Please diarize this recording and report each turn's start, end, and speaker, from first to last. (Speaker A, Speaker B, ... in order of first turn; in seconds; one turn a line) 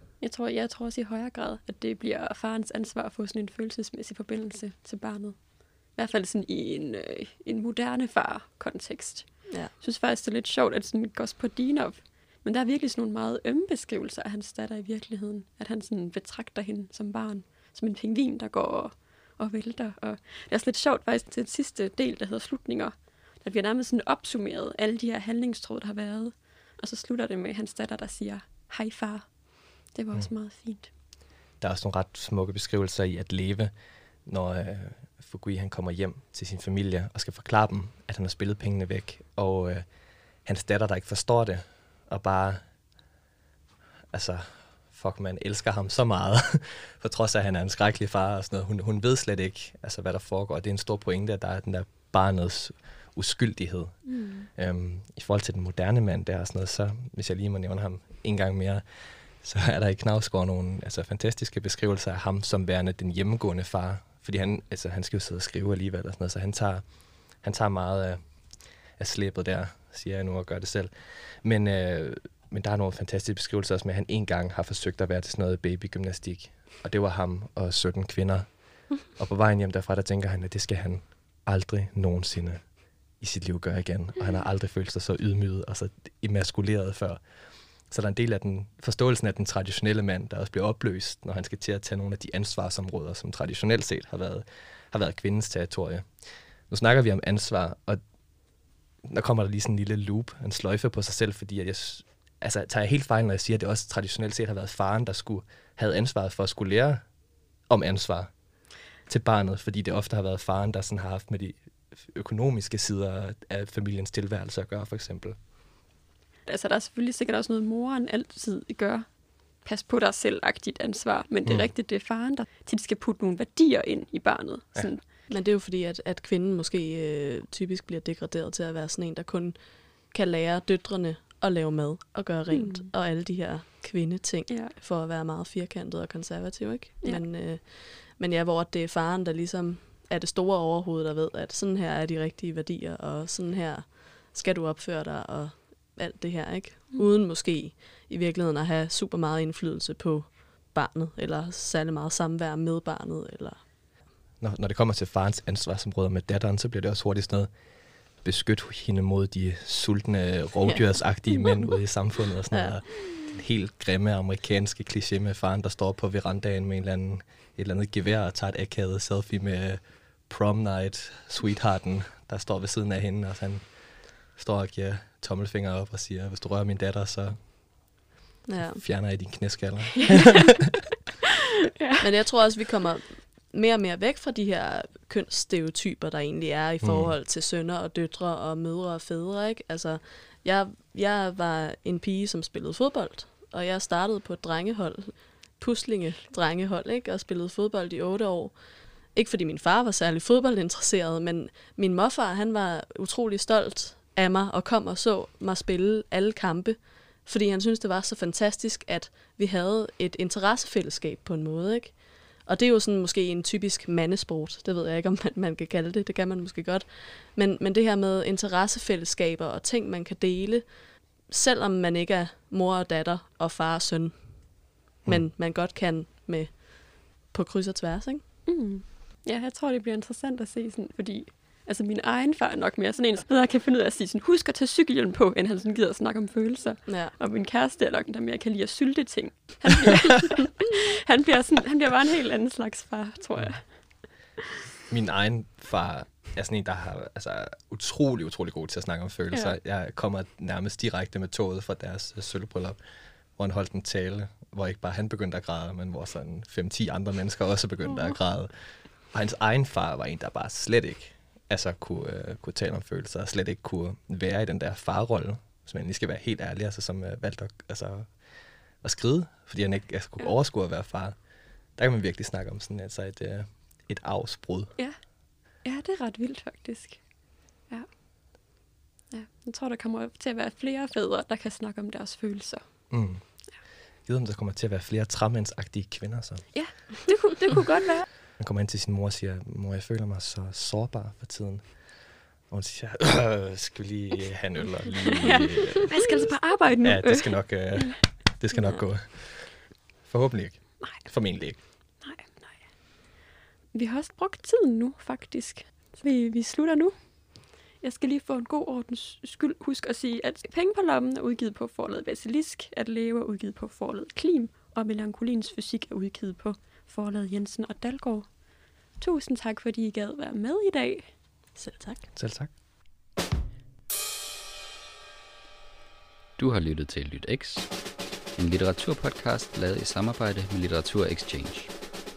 Speaker A: 0.2-5.4
Speaker A: 5.9-29.3
Speaker A: 29.9-30.9
Speaker B: 31.6-33.7
Speaker B: 34.2-39.9
Speaker B: 40.4-42.6
Speaker B: 44.1-66.8
Speaker A: 54.0-54.5
Speaker B: 67.4-68.2
Speaker B: 69.0-78.5
Speaker B: 79.1-82.6
Speaker B: 83.2-87.2
Speaker B: 87.9-98.0
Speaker B: 99.0-107.0
Speaker B: 107.7-108.3
Speaker B: 109.0-115.4
Speaker A: 116.5-119.1
Speaker A: 119.6-125.0
Speaker B: 121.4-121.7
Speaker C: 125.3-129.6
Speaker C: 130.1-153.6
Speaker A: 132.5-132.9
Speaker A: 134.5-134.7
Speaker B: 154.4-157.5
Speaker B: 158.2-173.7
Speaker B: 174.3-177.4
Speaker C: 178.4-178.8
Speaker B: 178.6-180.8
Speaker A: 180.0-180.3
Speaker C: 182.0-198.5
Speaker B: 186.8-187.1
Speaker C: 199.1-220.7
Speaker C: 221.3-224.1
Speaker C: 225.0-228.2
Speaker A: 228.5-243.8
Speaker C: 236.9-237.1
Speaker B: 244.9-252.8
Speaker A: 249.3-249.6
Speaker B: 253.4-268.1
Speaker A: 257.8-258.2
Speaker B: 268.8-271.1
Speaker B: 271.8-274.7
Speaker A: 275.6-277.0
Speaker A: 279.1-282.6
Speaker B: 282.9-283.2
Speaker B: 284.0-286.5
Speaker A: 286.5-288.1
Speaker B: 288.4-291.7
Speaker B: 292.5-296.3
Speaker A: 294.9-298.8
Speaker B: 296.8-301.6
Speaker A: 302.0-302.6
Speaker A: 303.7-306.9
Speaker A: 307.8-318.4
Speaker A: 319.0-321.1
Speaker C: 321.6-322.1
Speaker B: 322.1-322.5
Speaker D: 326.4-327.7
Speaker D: 328.3-331.7